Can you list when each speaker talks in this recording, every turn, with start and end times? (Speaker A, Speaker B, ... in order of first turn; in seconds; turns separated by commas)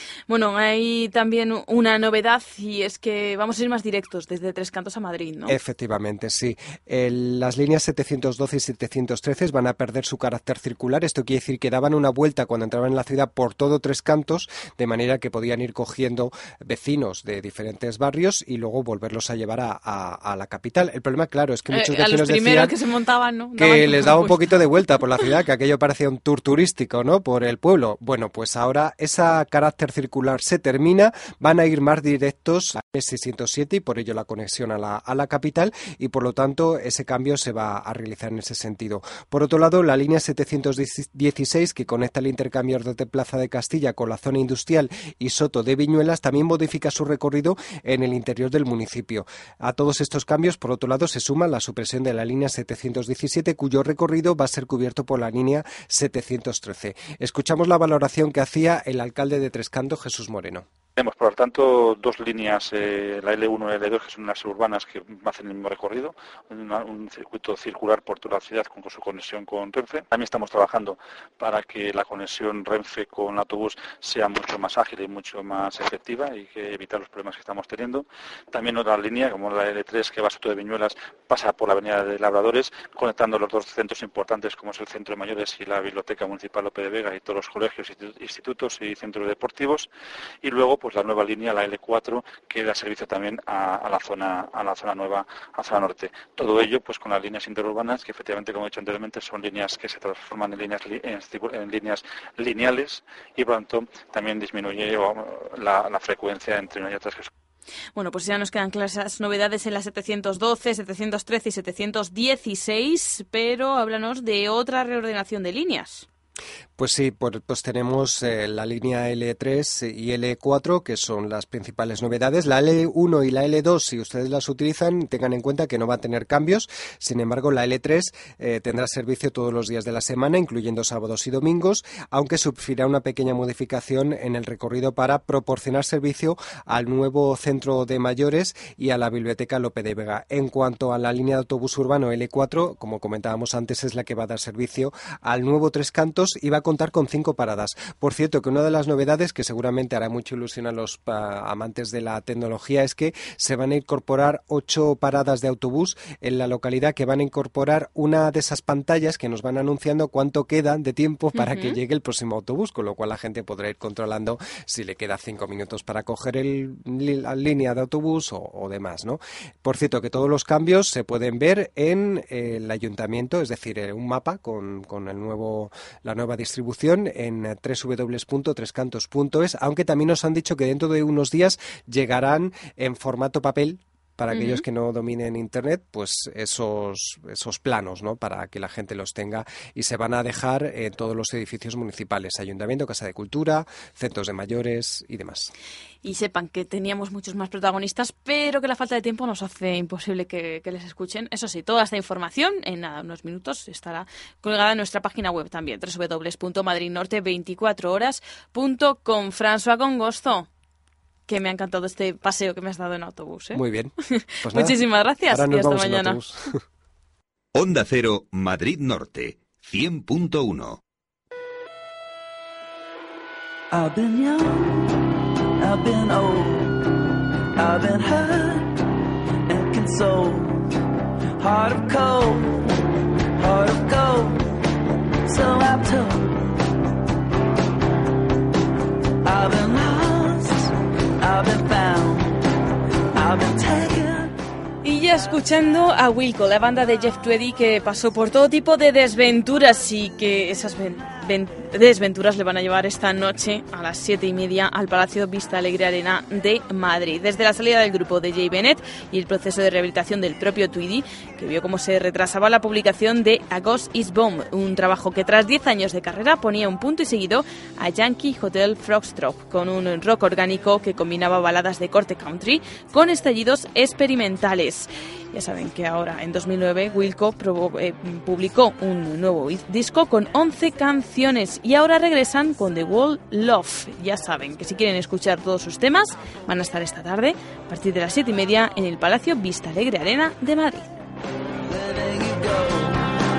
Speaker A: 0.3-5.5, Speaker B: 5.5-22.7, Speaker A: 21.7-25.3, Speaker B: 23.6-60.6, Speaker C: 61.0-89.9, Speaker C: 90.4-107.3, Speaker A: 108.0-116.0, Speaker B: 116.8-195.5, Speaker A: 161.3-161.8, Speaker A: 184.3-184.6, Speaker A: 196.0-210.5, Speaker A: 211.3-213.6, Speaker B: 213.5-213.9, Speaker B: 214.4-216.5, Speaker A: 214.5-216.2, Speaker D: 217.5-220.8, Speaker E: 223.7-224.9, Speaker E: 225.6-226.9, Speaker E: 227.6-228.7, Speaker E: 229.5-230.7, Speaker E: 231.4-232.7, Speaker E: 233.4-234.5, Speaker E: 235.2-236.5, Speaker E: 239.2-242.4, Speaker E: 243.1-244.3, Speaker A: 244.8-290.9, Speaker E: 291.6-293.1